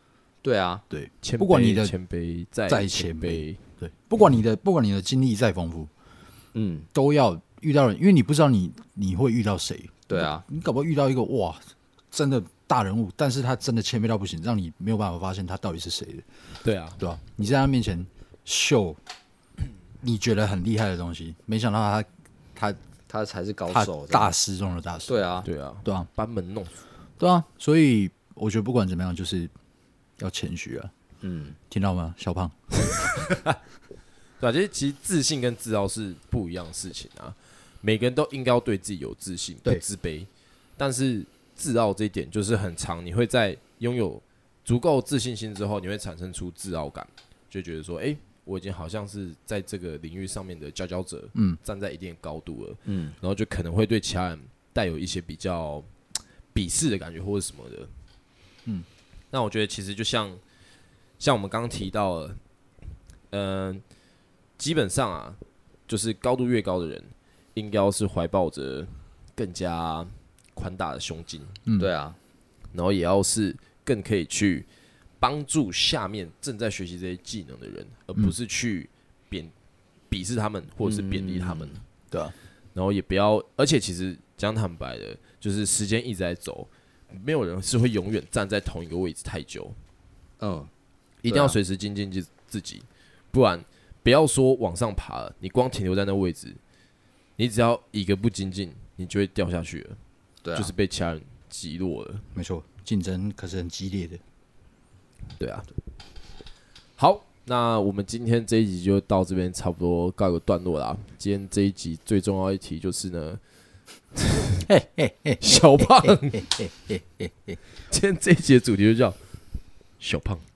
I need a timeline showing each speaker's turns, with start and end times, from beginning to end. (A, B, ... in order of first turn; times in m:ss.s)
0:00.4-0:00.8 A
0:00.9-0:01.9 B
0:01.2-0:03.6 C
0:02.7-0:05.9 B
0:06.5-0:06.9 A
0:06.9-0:11.6 B
0:10.1-0:10.4 A
0:12.1-0:16.2 B
0:16.6-0:17.0 C
0:17.0-0:19.0 B
0:20.0-0:22.8 B
0:23.1-0:24.3 A
0:23.7-0:25.1 B
0:25.1-0:25.5 A
0:25.4-0:26.8 C
0:27.2-0:29.5 B
0:30.2-0:30.9 B
0:31.2-0:31.6 A
0:31.7-0:32.6 B
0:34.4-0:55.9 C
0:52.9-0:53.1 A
0:56.5-0:57.9 C
0:59.3-1:00.4 C
1:01.2-1:02.4 C
1:03.3-1:03.8 C
1:04.6-1:11.6 C
1:11.8-1:12.2 A
1:12.7-1:14.7 C
1:15.2-1:19.5 C
1:20.1-1:21.8 C
1:20.8-1:21.8 A
1:22.7-1:29.8 C
1:30.4-1:30.7 A
1:31.2-1:31.6 A
1:31.2-1:36.6 C
1:37.4-1:40.0 C
1:40.4-1:40.7 A
1:40.5-1:42.2 C
1:42.3-1:44.2 B
1:45.4-1:45.7 C
1:47.0-1:53.4 C
1:54.2-1:54.6 C
1:54.7-1:57.6 B
1:55.4-1:56.5 C
1:57.9-1:59.2 C
2:00.0-2:00.4 C